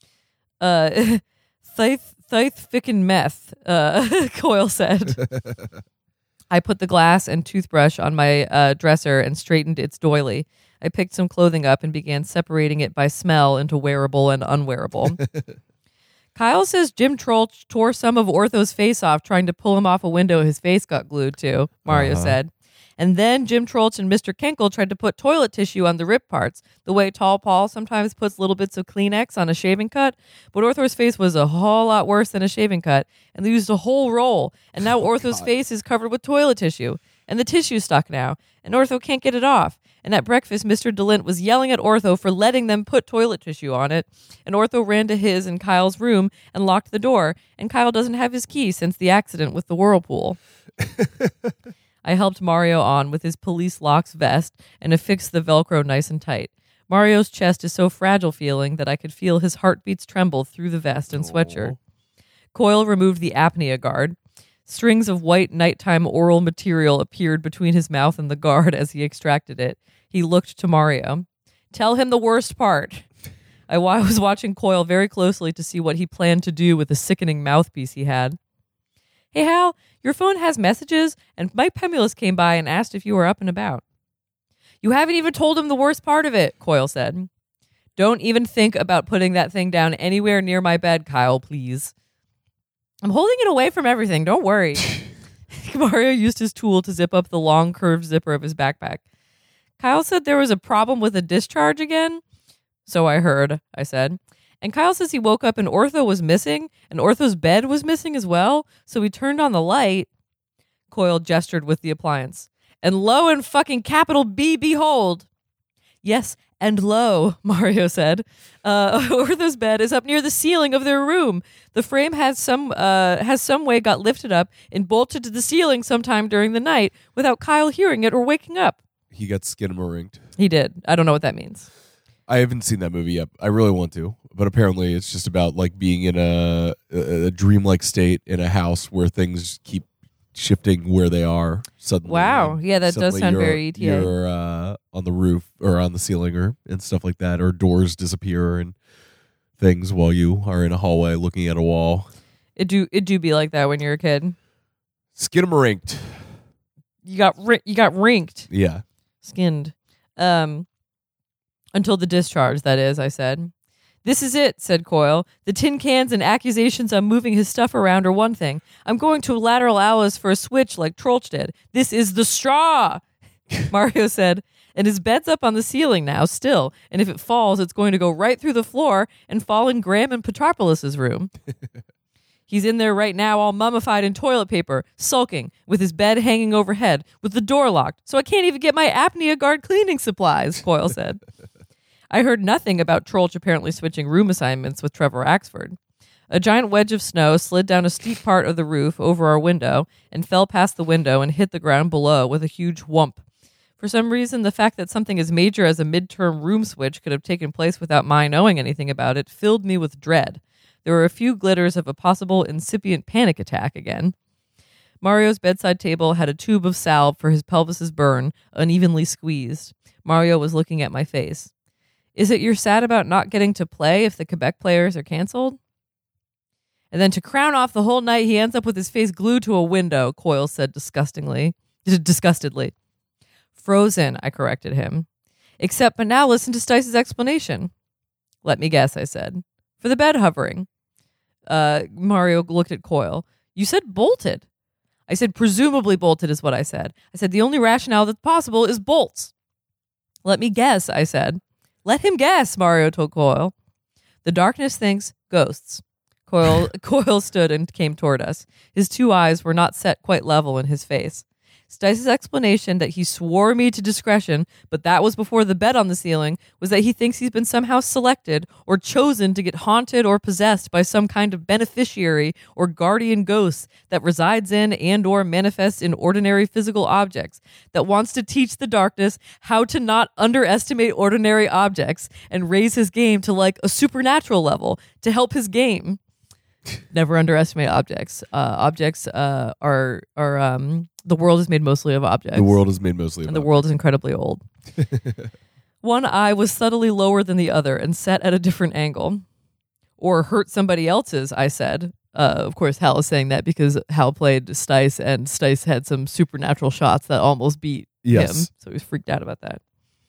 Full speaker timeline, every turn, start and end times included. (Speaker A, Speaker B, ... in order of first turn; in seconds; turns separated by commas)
Speaker A: 0.6-5.2, Speaker B: 5.2-5.5, Speaker A: 6.5-15.2, Speaker B: 15.2-15.6, Speaker A: 16.4-50.4, Speaker B: 21.9-22.4, Speaker B: 34.9-35.5, Speaker B: 50.8-51.3, Speaker A: 52.0-61.8, Speaker B: 61.1-61.8, Speaker A: 62.5-73.1, Speaker A: 73.7-78.4, Speaker A: 79.3-83.8, Speaker A: 84.8-87.3, Speaker A: 88.0-91.9, Speaker A: 93.0-95.0, Speaker A: 95.5-99.0, Speaker A: 99.8-102.2, Speaker A: 102.9-110.1, Speaker A: 110.9-115.3, Speaker A: 116.0-128.8, Speaker B: 129.1-130.2, Speaker A: 130.4-131.7, Speaker B: 132.3-148.8, Speaker A: 142.1-144.1, Speaker B: 149.6-152.1, Speaker A: 152.6-154.3, Speaker B: 155.1-156.3, Speaker A: 157.1-158.5, Speaker B: 158.5-158.8, Speaker A: 159.2-160.7, Speaker A: 161.7-163.5, Speaker A: 164.0-173.0, Speaker A: 173.6-181.3, Speaker A: 182.5-191.2, Speaker A: 192.1-195.8, Speaker A: 196.3-203.2, Speaker A: 203.8-214.1, Speaker A: 215.0-221.5, Speaker A: 222.2-225.6, Speaker A: 226.9-232.7, Speaker A: 233.6-235.1, Speaker A: 235.6-237.7, Speaker A: 238.4-240.7, Speaker A: 241.5-244.4, Speaker A: 245.1-249.3, Speaker A: 250.2-253.5, Speaker A: 254.2-286.0, Speaker A: 286.9-292.6, Speaker B: 292.3-293.6, Speaker A: 293.3-294.4, Speaker B: 294.8-295.3, Speaker A: 295.8-299.2, Speaker A: 300.0-309.6, Speaker B: 308.0-308.5